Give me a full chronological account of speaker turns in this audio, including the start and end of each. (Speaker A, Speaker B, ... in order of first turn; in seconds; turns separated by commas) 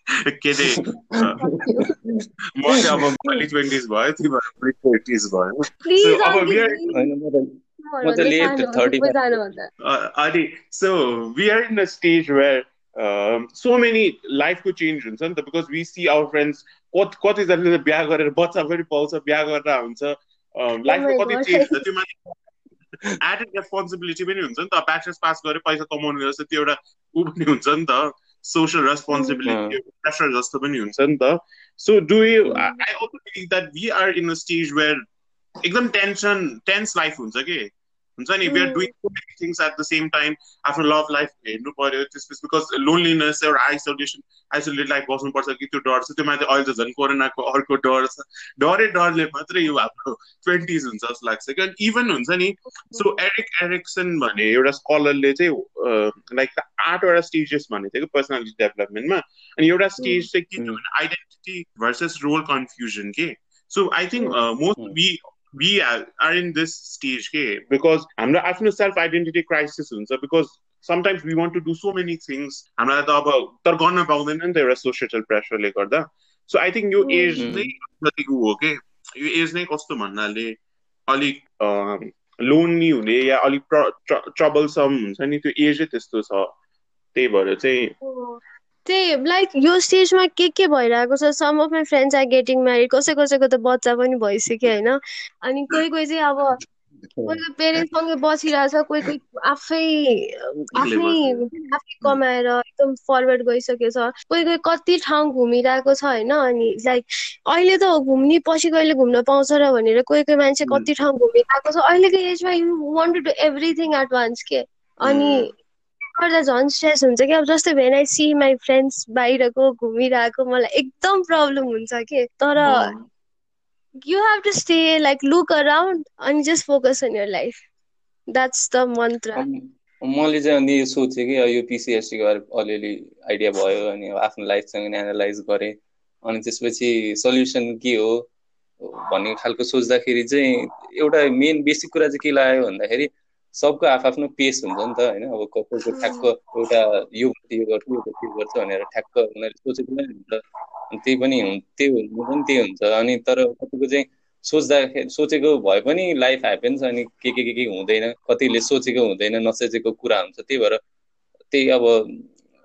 Speaker A: 0.3-1.4, Speaker B: 0.7-3.2, Speaker C: 1.4-1.9, Speaker A: 2.5-6.8, Speaker C: 5.8-7.0, Speaker B: 6.9-9.4, Speaker C: 7.8-9.7, Speaker A: 9.8-22.1, Speaker C: 20.9-21.8, Speaker A: 23.2-35.0, Speaker B: 29.4-29.8, Speaker A: 35.6-37.7, Speaker A: 38.2-80.5, Speaker C: 38.5-38.9, Speaker C: 60.0-60.3, Speaker C: 77.0-77.4, Speaker B: 77.4-77.7, Speaker A: 81.1-86.5, Speaker A: 87.2-87.9, Speaker C: 88.0-96.6, Speaker B: 97.1-97.4, Speaker C: 97.3-115.5, Speaker A: 100.8-101.4, Speaker A: 115.0-115.5, Speaker C: 116.2-122.9, Speaker A: 122.6-123.1, Speaker C: 124.0-127.6, Speaker C: 128.3-129.4, Speaker B: 129.4-135.8, Speaker B: 136.3-138.2, Speaker B: 138.9-160.8, Speaker C: 145.9-146.3, Speaker B: 161.5-162.3